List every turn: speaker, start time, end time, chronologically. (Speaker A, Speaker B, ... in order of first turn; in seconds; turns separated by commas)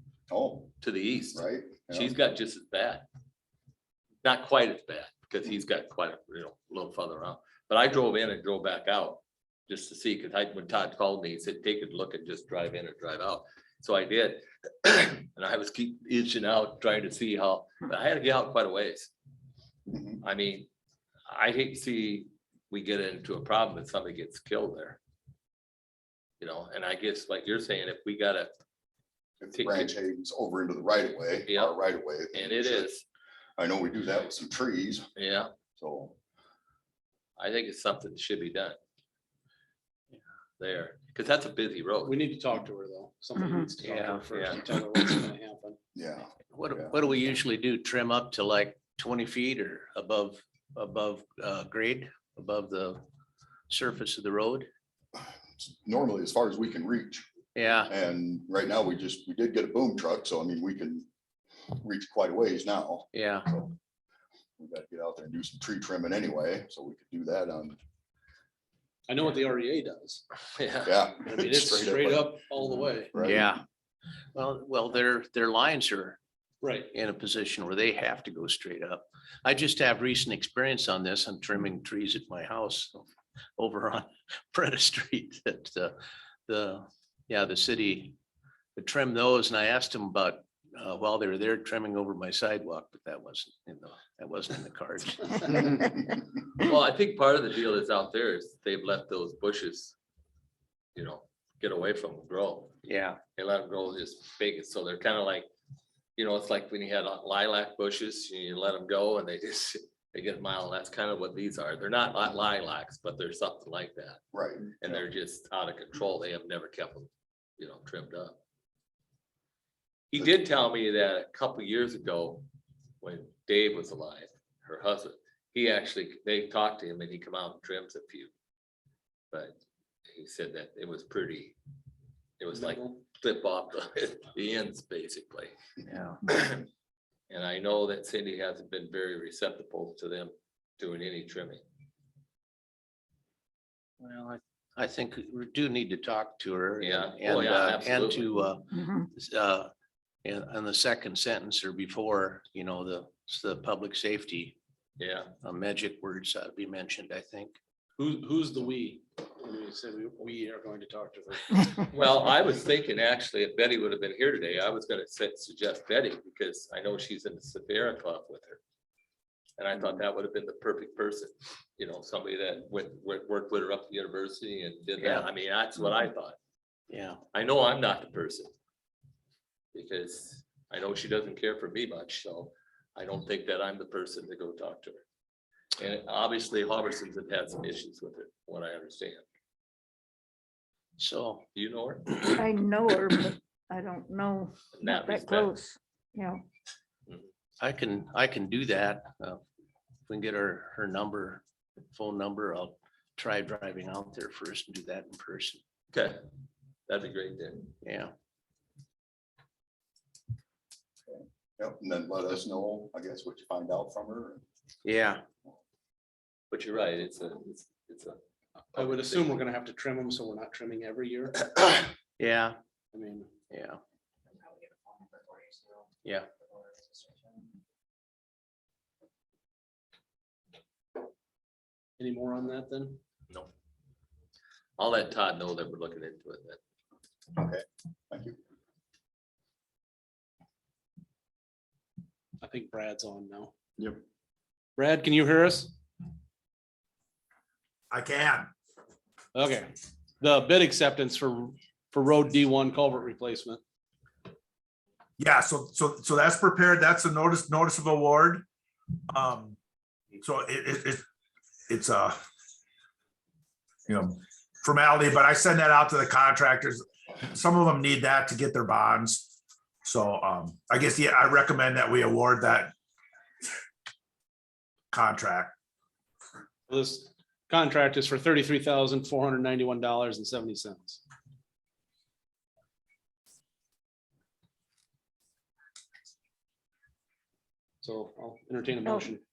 Speaker A: 0.3-0.7, Speaker B: 0.8-3.0, Speaker A: 1.3-2.1, Speaker B: 4.2-19.1, Speaker A: 19.9-20.2, Speaker B: 20.2-20.7, Speaker B: 21.3-25.0, Speaker B: 26.4-28.5, Speaker A: 29.4-32.9, Speaker B: 29.5-29.9, Speaker B: 31.4-31.8, Speaker B: 32.3-33.0, Speaker A: 33.6-35.1, Speaker B: 35.1-35.5, Speaker A: 35.8-36.1, Speaker B: 37.4-38.8, Speaker B: 40.6-42.2, Speaker C: 42.0-45.8, Speaker D: 43.4-43.7, Speaker E: 43.9-44.2, Speaker B: 44.3-44.6, Speaker A: 45.9-46.9, Speaker E: 46.5-53.0, Speaker E: 53.7-54.7, Speaker A: 55.1-57.2, Speaker E: 57.5-57.9, Speaker A: 57.9-61.1, Speaker A: 61.7-63.7, Speaker E: 63.1-63.5, Speaker A: 64.6-67.8, Speaker C: 69.1-70.2, Speaker B: 70.5-70.9, Speaker A: 70.8-72.4, Speaker C: 71.2-73.1, Speaker A: 73.1-73.5, Speaker E: 73.2-73.6, Speaker E: 74.3-76.2, Speaker C: 76.6-76.9, Speaker E: 76.9-83.0, Speaker E: 83.6-85.9, Speaker E: 86.5-88.2, Speaker E: 88.8-95.8, Speaker B: 96.6-100.0, Speaker B: 101.0-102.7, Speaker E: 102.8-103.2, Speaker B: 103.3-105.5, Speaker B: 106.2-114.2, Speaker A: 114.3-114.8, Speaker B: 114.8-118.4, Speaker B: 120.1-122.5, Speaker B: 123.0-128.3, Speaker B: 129.3-129.6, Speaker B: 130.1-131.5, Speaker B: 132.4-135.5, Speaker C: 132.6-132.9, Speaker E: 135.9-136.2, Speaker B: 136.3-136.7, Speaker B: 137.3-141.6, Speaker E: 144.0-149.7, Speaker B: 146.8-148.4, Speaker D: 148.7-149.1, Speaker E: 150.2-154.5, Speaker B: 155.0-155.3, Speaker E: 155.4-157.6, Speaker C: 158.0-161.9, Speaker B: 161.9-168.6, Speaker B: 169.6-176.3, Speaker E: 175.0-175.3, Speaker E: 176.9-177.2, Speaker B: 177.3-178.5, Speaker B: 179.7-185.0, Speaker B: 185.8-189.2, Speaker E: 191.0-191.4, Speaker B: 191.5-192.3, Speaker D: 192.3-196.4, Speaker B: 194.7-195.5, Speaker E: 197.6-199.4, Speaker E: 200.1-205.6, Speaker B: 205.9-206.2, Speaker B: 206.9-207.7, Speaker E: 207.8-208.1, Speaker A: 211.1-214.4, Speaker E: 214.8-215.2, Speaker B: 216.5-218.2, Speaker B: 218.7-219.3, Speaker C: 218.7-221.9, Speaker E: 222.2-222.6, Speaker C: 222.9-223.3, Speaker E: 223.5-223.8, Speaker C: 232.0-233.0, Speaker B: 234.8-236.6, Speaker A: 237.3-238.4, Speaker C: 242.4-243.5, Speaker C: 244.8-245.7, Speaker F: 247.9-248.5, Speaker C: 249.3-253.6, Speaker F: 255.2-258.4, Speaker F: 259.1-259.6, Speaker F: 260.2-261.0, Speaker F: 261.7-262.2, Speaker F: 263.9-269.3, Speaker F: 269.8-272.7, Speaker F: 274.9-275.5, Speaker C: 276.7-281.0, Speaker C: 287.8-289.2, Speaker D: 288.8-289.1